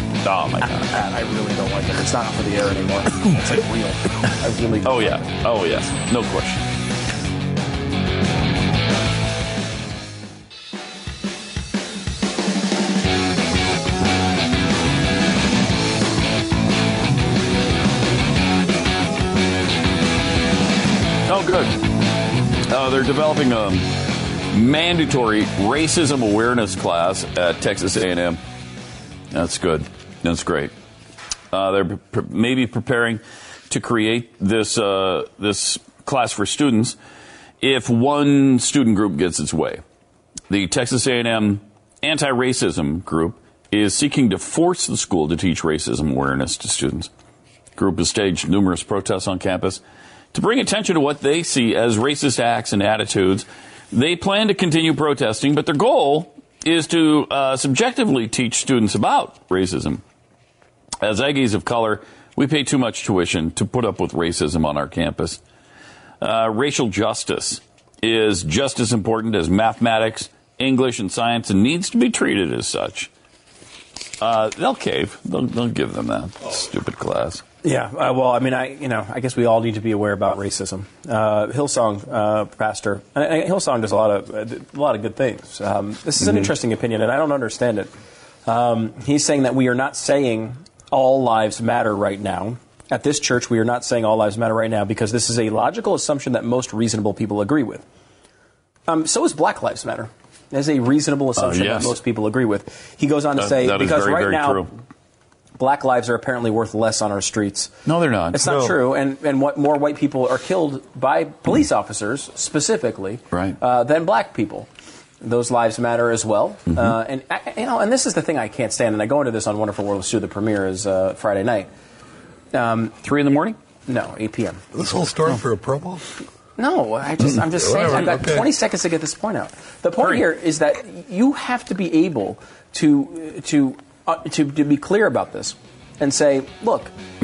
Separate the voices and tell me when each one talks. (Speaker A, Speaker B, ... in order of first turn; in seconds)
Speaker A: 0.2-0.9, 4.8-6.6, 21.3-21.8, 22.7-23.9, 24.5-28.4, 29.3-30.7, 31.5-37.0, 37.6-39.8, 40.5-47.1, 47.8-49.8, 50.3-60.0, 61.0-65.4, 66.2-73.1, 74.2-77.4, 101.4-102.0, 103.4-104.7, 107.9-108.5, 123.0-123.6
Speaker B: 0.7-5.3, 77.6-87.9, 88.5-97.8, 98.9-104.7, 105.6-107.7, 108.3-114.7, 115.2-121.7, 122.5-123.0, 123.9-124.6, 126.6-136.9
Speaker C: 108.4-108.8, 124.7-126.0, 127.6-128.5